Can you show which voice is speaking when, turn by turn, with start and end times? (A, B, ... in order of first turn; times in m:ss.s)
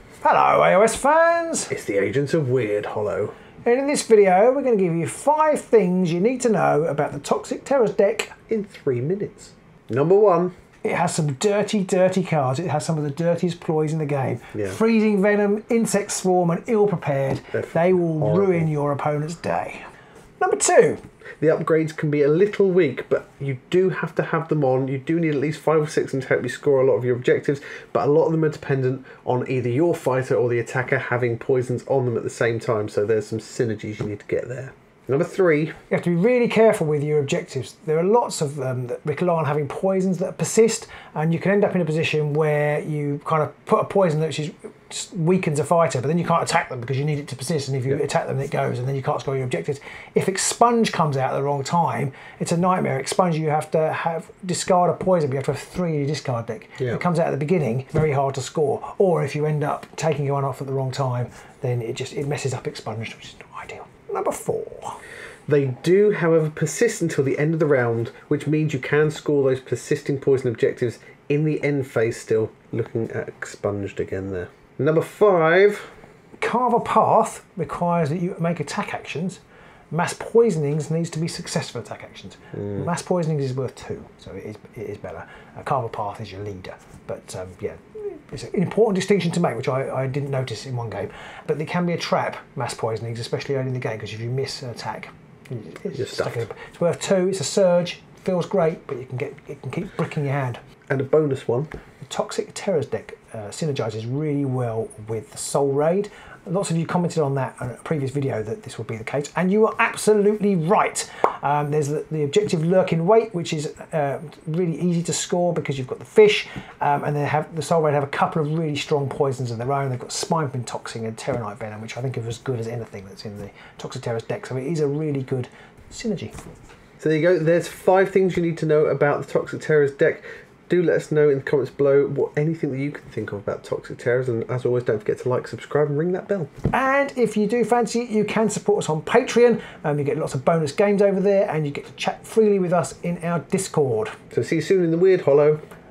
0:00.2-0:01.7 A
0:01.7-0:03.4 B
0:03.6-0:08.4 A
0:08.5-0:10.5 B
0:10.8-0:19.9 A
0:17.5-0:18.7 B
0:20.4-0:21.0 A
0:21.4-0:35.8 B
0:35.9-1:05.0 A
1:05.5-1:15.9 B
1:16.4-1:40.6 A
1:35.9-1:36.4 B
1:40.9-1:41.7 B
1:42.0-2:06.4 A
2:07.0-2:16.5 B
2:16.7-2:24.2 A
2:24.3-2:25.6 B